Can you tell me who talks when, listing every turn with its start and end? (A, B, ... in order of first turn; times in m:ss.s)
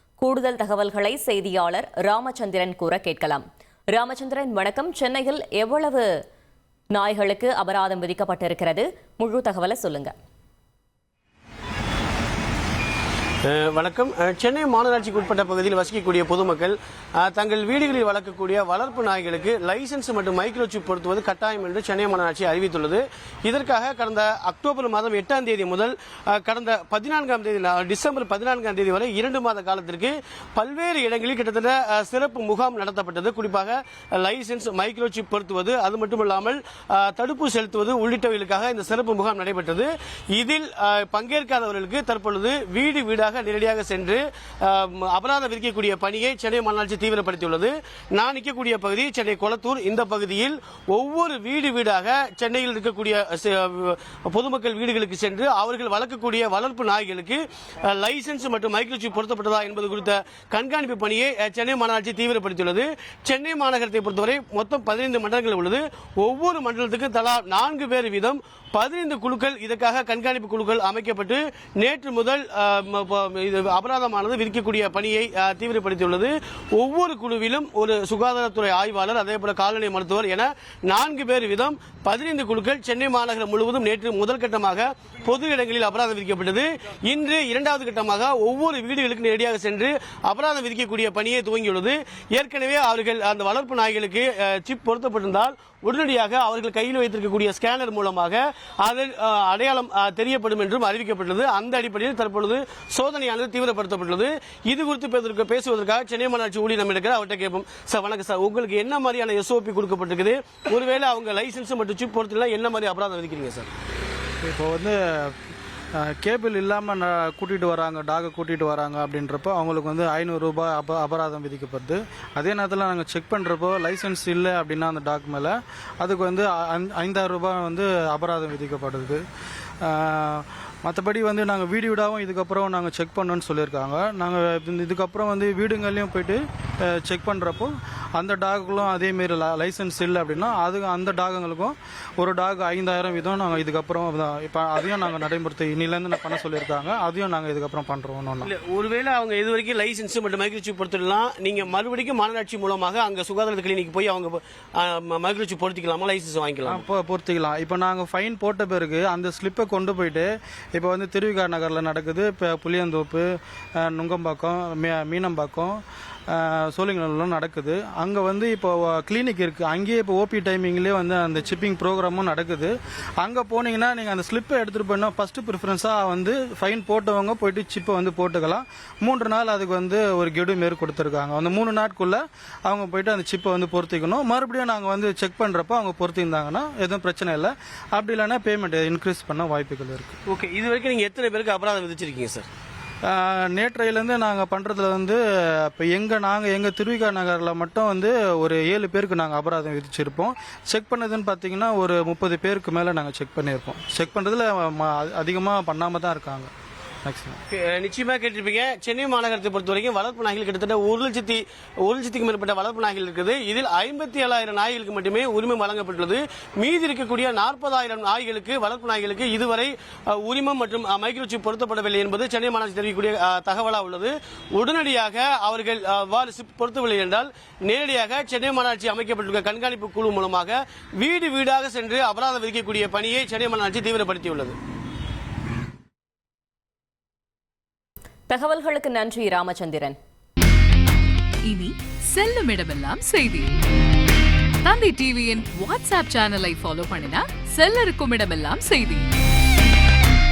0:00.2-0:06.1 A
0:06.9-0:10.1 A
0:13.5-1:53.7 B
1:54.4-1:55.4 C
1:56.0-2:09.2 C
2:09.8-2:28.5 C
2:28.4-2:36.8 B
2:36.7-3:10.2 C
3:10.3-3:12.5 B
3:13.1-3:26.5 C
3:27.0-3:27.4 C
3:27.5-3:54.6 B
3:58.3-4:00.0 A
4:01.5-4:03.6 D
4:04.6-4:09.1 D